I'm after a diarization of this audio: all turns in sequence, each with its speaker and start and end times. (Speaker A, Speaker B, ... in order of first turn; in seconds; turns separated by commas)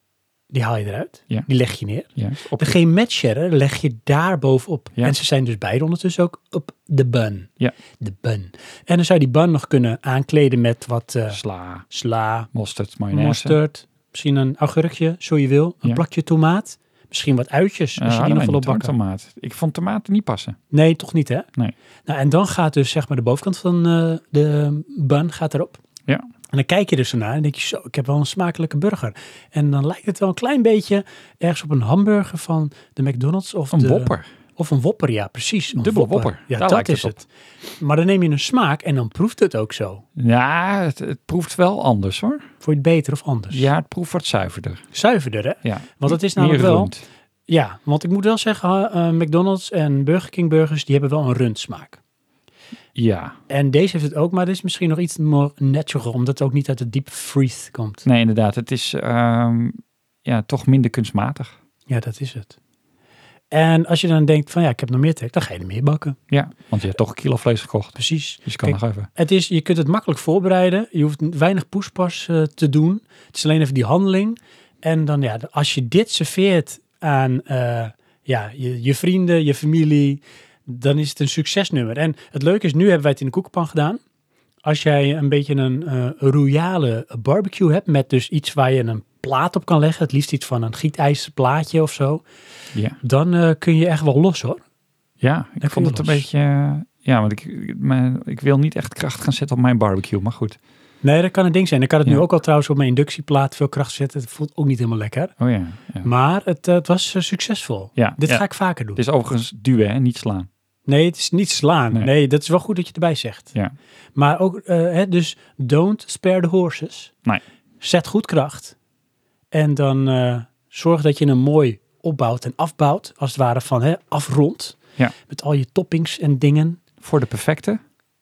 Speaker A: 0.5-12.5, Speaker B: 2.2-2.8, Speaker B: 11.3-11.9, Speaker B: 12.5-13.6, Speaker A: 13.1-18.9, Speaker B: 18.0-20.6, Speaker A: 20.7-21.5, Speaker A: 22.1-25.8, Speaker A: 26.5-37.3, Speaker B: 33.7-34.3, Speaker B: 35.7-37.2, Speaker A: 37.8-40.0, Speaker B: 40.2-42.4, Speaker A: 42.6-43.7, Speaker B: 43.5-44.8, Speaker A: 44.9-46.9, Speaker B: 45.6-47.1, Speaker A: 47.5-52.0, Speaker B: 53.0-53.4, Speaker A: 53.5-58.0, Speaker B: 58.0-61.5, Speaker A: 61.9-62.6, Speaker A: 63.5-66.2, Speaker B: 66.3-69.1, Speaker A: 68.0-84.0, Speaker A: 84.7-92.2, Speaker A: 93.0-94.6, Speaker B: 95.2-100.6, Speaker A: 95.6-96.3, Speaker A: 101.0-105.3, Speaker B: 105.4-106.1, Speaker A: 106.0-109.0, Speaker B: 108.0-108.4, Speaker B: 109.0-110.5, Speaker A: 110.9-113.5, Speaker A: 114.2-117.1, Speaker A: 117.8-118.8, Speaker A: 119.5-126.8, Speaker B: 127.0-127.8